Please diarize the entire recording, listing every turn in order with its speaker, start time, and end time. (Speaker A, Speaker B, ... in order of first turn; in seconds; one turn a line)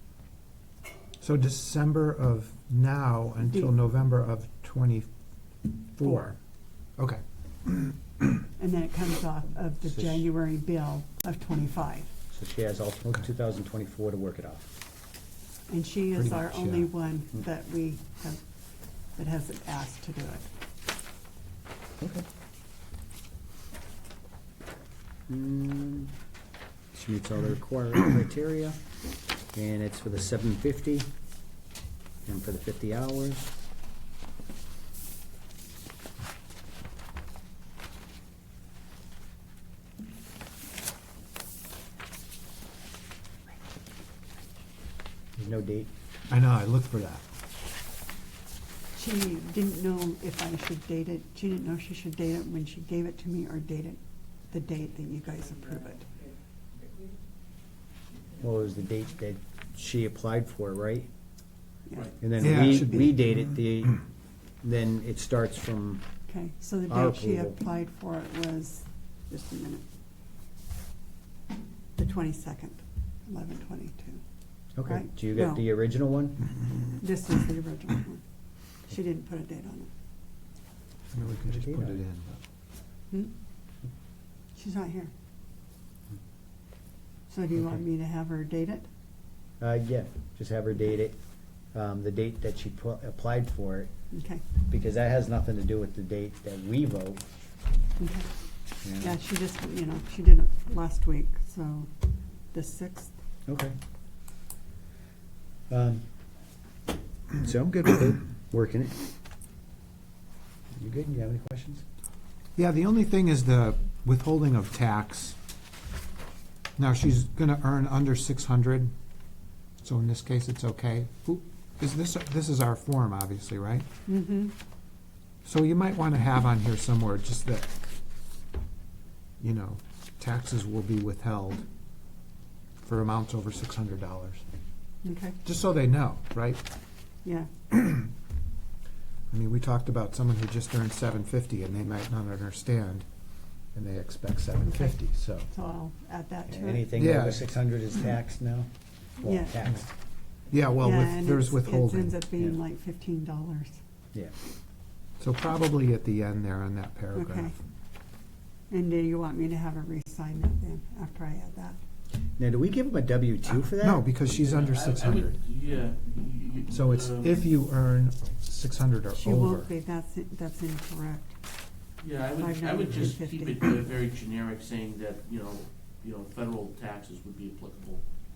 Speaker A: 1.2-5.1
Speaker A: 6.0-6.4
Speaker A: 7.0-8.3
Speaker B: 8.6-12.1
Speaker C: 12.3-14.7
Speaker B: 15.7-18.4
Speaker A: 16.1-16.9
Speaker B: 19.2-20.5
Speaker C: 25.3-26.1
Speaker C: 26.9-28.8
Speaker C: 29.5-31.1
Speaker C: 32.3-33.5
Speaker C: 45.4-45.9
Speaker A: 46.3-47.2
Speaker B: 49.0-56.1
Speaker C: 58.4-61.1
Speaker B: 61.9-63.1
Speaker C: 62.2-64.0
Speaker A: 62.4-63.1
Speaker C: 64.6-66.0
Speaker B: 66.3-69.8
Speaker C: 66.9-67.6
Speaker B: 72.0-74.2
Speaker C: 74.8-76.5
Speaker B: 74.9-75.6
Speaker B: 77.0-78.2
Speaker B: 78.8-79.9
Speaker A: 81.1-82.4
Speaker C: 81.5-82.0
Speaker B: 84.5-85.1
Speaker B: 87.3-88.9
Speaker C: 89.6-91.2
Speaker C: 91.7-93.9
Speaker B: 94.1-94.4
Speaker C: 94.7-97.2
Speaker B: 98.0-98.3
Speaker C: 98.8-99.2
Speaker B: 99.0-101.9
Speaker B: 102.5-103.1
Speaker C: 103.5-103.8
Speaker C: 105.7-106.0
Speaker C: 107.4-109.0
Speaker C: 110.8-111.8
Speaker A: 112.6-115.4
Speaker A: 116.8-118.9
Speaker A: 119.8-123.9
Speaker B: 124.1-124.5
Speaker A: 125.4-127.7
Speaker A: 129.4-131.7
Speaker A: 132.8-134.4
Speaker B: 135.0-135.4
Speaker A: 135.4-136.6
Speaker B: 137.2-137.5
Speaker A: 139.3-143.1
Speaker A: 143.7-145.5
Speaker B: 144.6-146.9
Speaker C: 146.5-148.7
Speaker A: 146.9-147.4
Speaker C: 149.2-149.9
Speaker B: 149.2-149.6
Speaker A: 150.5-152.2
Speaker B: 150.8-153.8
Speaker A: 155.2-157.5
Speaker B: 157.1-157.6
Speaker B: 158.7-161.8
Speaker C: 162.4-164.1
Speaker A: 163.6-165.3
Speaker D: 164.2-167.5
Speaker A: 166.7-169.7
Speaker B: 169.1-171.4
Speaker D: 172.0-178.0
Speaker B: 172.4-173.7